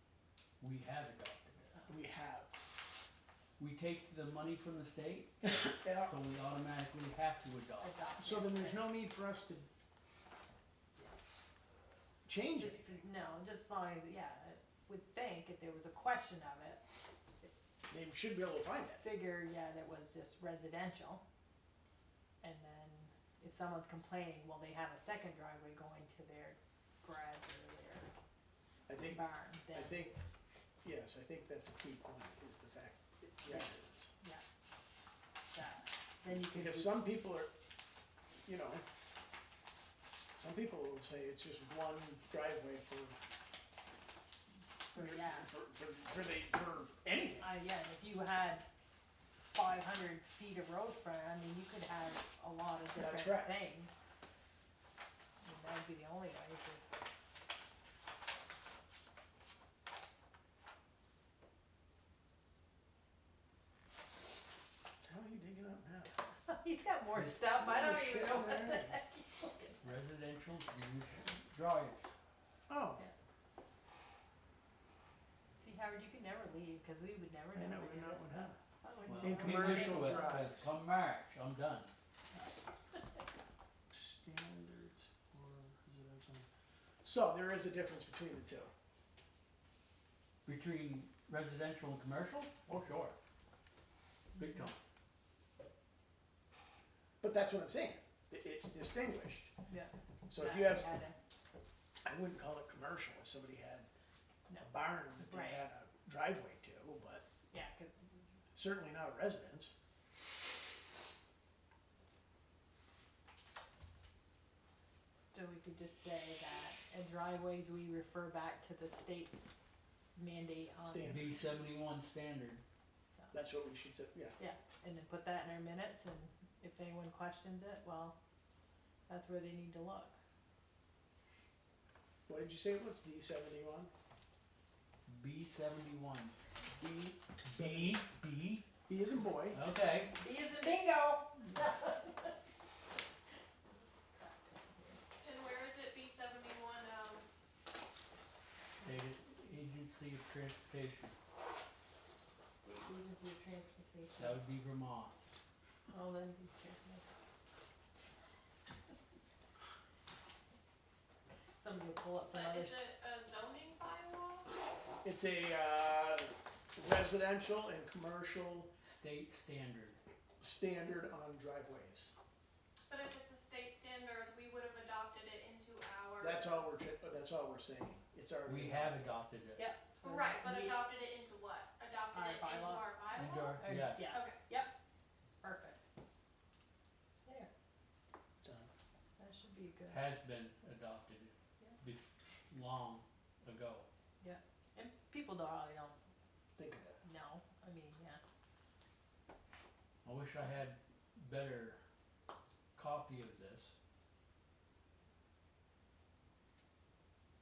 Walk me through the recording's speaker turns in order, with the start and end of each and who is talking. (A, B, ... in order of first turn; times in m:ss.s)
0:00.6-0:01.9 A
0:01.9-0:02.6 B
0:03.6-0:05.5 A
0:05.6-0:06.1 B
0:06.0-0:07.9 A
0:07.8-0:08.9 C
0:08.2-0:09.7 B
0:12.2-0:13.0 B
0:12.6-0:16.8 C
0:17.9-0:19.0 B
0:19.0-0:21.2 C
0:22.4-0:28.1 C
0:28.9-0:30.2 B
0:29.0-0:30.1 C
0:30.8-0:34.1 B
0:35.5-0:37.0 C
0:36.3-0:37.5 B
0:38.4-0:38.8 B
0:40.4-0:43.2 B
0:44.9-0:45.5 C
0:44.9-0:47.5 B
0:47.4-0:48.6 C
0:49.5-0:53.9 C
0:53.0-0:53.6 B
0:55.4-0:56.8 C
1:05.0-1:06.1 B
1:06.4-1:09.9 C
1:07.4-1:09.0 B
1:09.8-1:12.1 A
1:12.7-1:13.0 B
1:15.6-1:20.4 C
1:17.5-1:18.6 B
1:19.1-1:21.9 A
1:19.2-1:20.7 B
1:23.9-1:26.5 B
1:27.0-1:28.7 B
1:30.4-1:33.1 A
1:34.4-1:34.8 A
1:34.4-1:34.7 C
1:37.2-1:39.5 B
1:39.7-1:41.2 C
1:40.3-1:40.9 B
1:42.0-1:43.9 B
1:44.5-1:45.6 C
1:44.6-1:47.2 B
1:47.5-1:48.2 C
1:48.5-1:49.7 B
1:55.3-1:59.4 C
2:00.2-2:01.2 C
2:00.8-2:01.4 B
2:01.0-2:02.6 A
2:03.3-2:04.4 B
2:04.4-2:08.2 C
2:09.1-2:10.2 C
2:12.3-2:13.9 B
2:15.1-2:16.3 A
2:16.8-2:18.0 B
2:17.4-2:18.6 A
2:18.9-2:19.6 B
2:19.5-2:20.1 A
2:20.1-2:22.4 C
2:24.1-2:25.0 C
2:25.2-2:27.2 D
2:28.8-2:31.2 A
2:32.6-2:34.4 C
2:34.2-2:35.2 A
2:35.9-2:37.2 C
2:41.6-2:42.8 C
2:42.3-2:44.5 D
2:45.0-2:48.7 B
2:49.0-2:50.0 A
2:50.4-2:52.1 B
2:52.9-2:56.6 D
2:56.2-2:59.1 B
2:58.4-2:59.6 A
2:59.6-3:00.8 C
3:00.0-3:04.4 D
3:02.1-3:02.9 C
3:03.1-3:04.1 A
3:03.6-3:04.7 C
3:05.4-3:05.8 C
3:08.4-3:08.7 B
3:09.2-3:10.0 C
3:09.9-3:13.9 A
3:14.2-3:16.0 C
3:16.6-3:17.0 B
3:17.0-3:18.2 C
3:20.0-3:21.8 A
3:22.7-3:23.7 A